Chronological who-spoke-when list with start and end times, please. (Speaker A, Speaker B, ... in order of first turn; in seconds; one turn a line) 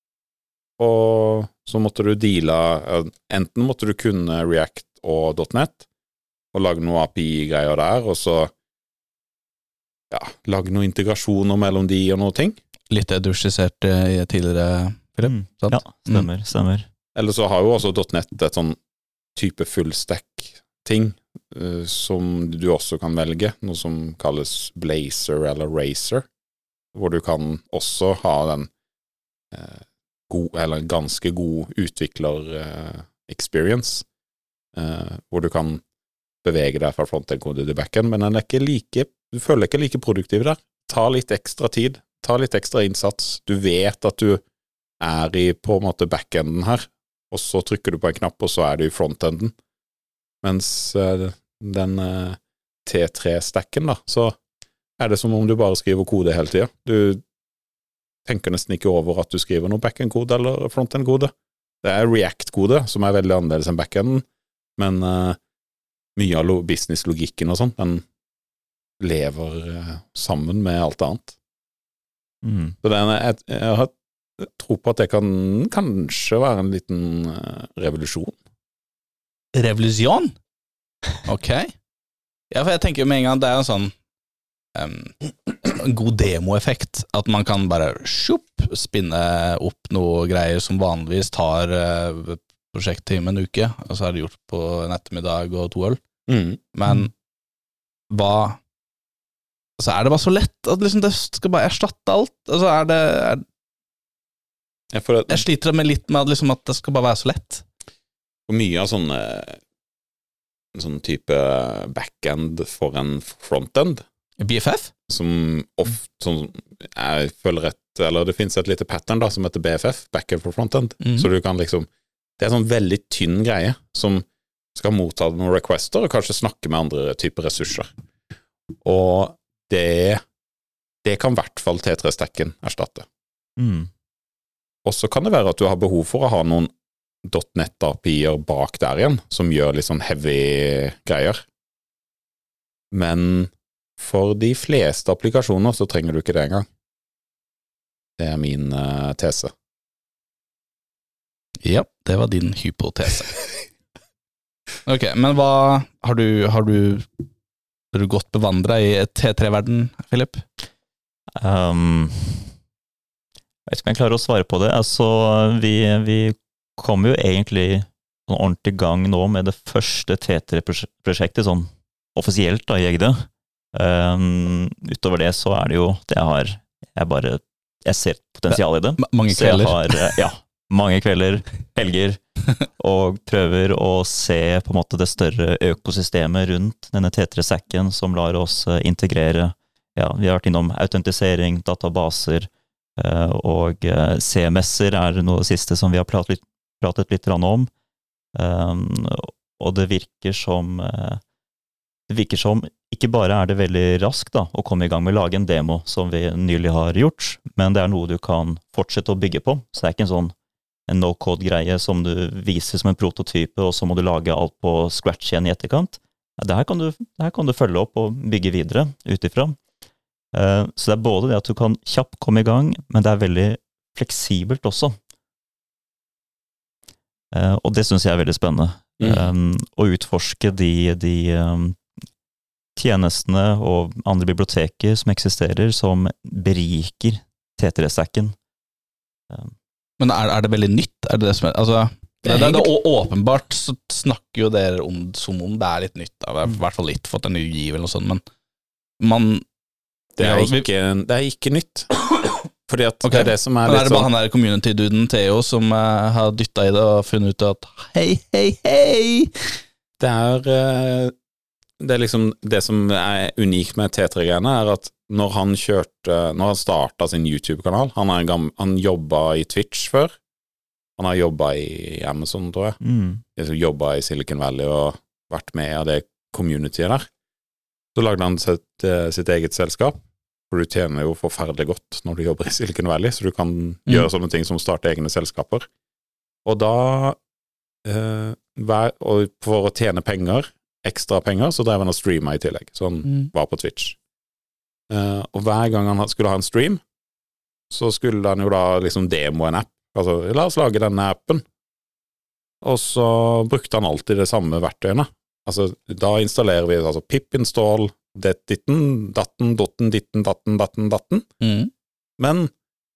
Speaker A: 0.8-5.8
Speaker A: 6.5-8.5
Speaker A: 10.1-12.6
Speaker B: 12.9-16.3
Speaker C: 15.2-16.9
Speaker A: 17.1-18.8
Speaker A: 19.3-26.2
Speaker A: 26.9-28.7
Speaker A: 29.5-34.0
Speaker A: 34.7-35.8
Speaker A: 36.4-44.4
Speaker A: 45.0-49.5
Speaker A: 50.4-54.4
Speaker A: 55.0-57.2
Speaker A: 58.2-64.2
Speaker A: 64.8-65.4
Speaker A: 66.2-68.0
Speaker A: 69.0-71.3
Speaker C: 72.4-72.8
Speaker A: 72.8-78.4
Speaker B: 79.5-80.3
Speaker B: 81.2-81.7
Speaker B: 82.5-83.9
Speaker B: 84.7-96.0
Speaker A: 96.3-96.6
Speaker B: 96.7-97.1
Speaker B: 98.1-98.6
Speaker B: 99.8-103.4
Speaker A: 104.9-105.5
Speaker B: 105.3-107.6
Speaker A: 108.5-109.6
Speaker A: 110.7-114.0
Speaker B: 114.4-114.9
Speaker A: 115.1-121.9
Speaker B: 121.0-121.3
Speaker A: 122.4-127.9
Speaker A: 128.8-130.2
Speaker A: 131.0-133.1
Speaker C: 133.6-133.9
Speaker A: 134.8-141.4
Speaker A: 142.9-146.7
Speaker A: 148.2-149.5
Speaker B: 151.6-153.4
Speaker B: 154.8-157.3
Speaker B: 157.9-160.4
Speaker C: 161.4-162.5
Speaker C: 163.7-197.7
Speaker B: 178.5-180.2
Speaker C: 198.3-201.2
Speaker C: 202.1-210.3
Speaker C: 210.9-219.6
Speaker C: 220.3-224.9
Speaker C: 227.3-231.8
Speaker A: 229.0-229.3
Speaker C: 232.8-238.3
Speaker B: 240.0-248.2
Speaker C: 242.3-242.6
Speaker B: 249.0-249.4
Speaker A: 250.2-251.9
Speaker B: 250.2-250.6
Speaker A: 252.7-254.1
Speaker B: 253.0-259.3
Speaker A: 260.0-261.1
Speaker A: 261.8-270.2
Speaker A: 271.0-272.8
Speaker C: 272.8-273.2
Speaker A: 273.3-277.1
Speaker A: 277.9-280.0
Speaker A: 280.5-285.7
Speaker A: 286.4-287.2
Speaker A: 287.8-294.0
Speaker B: 293.1-293.3
Speaker A: 294.9-296.8
Speaker A: 297.7-301.4
Speaker A: 302.6-311.3
Speaker B: 311.4-311.7
Speaker A: 312.2-312.5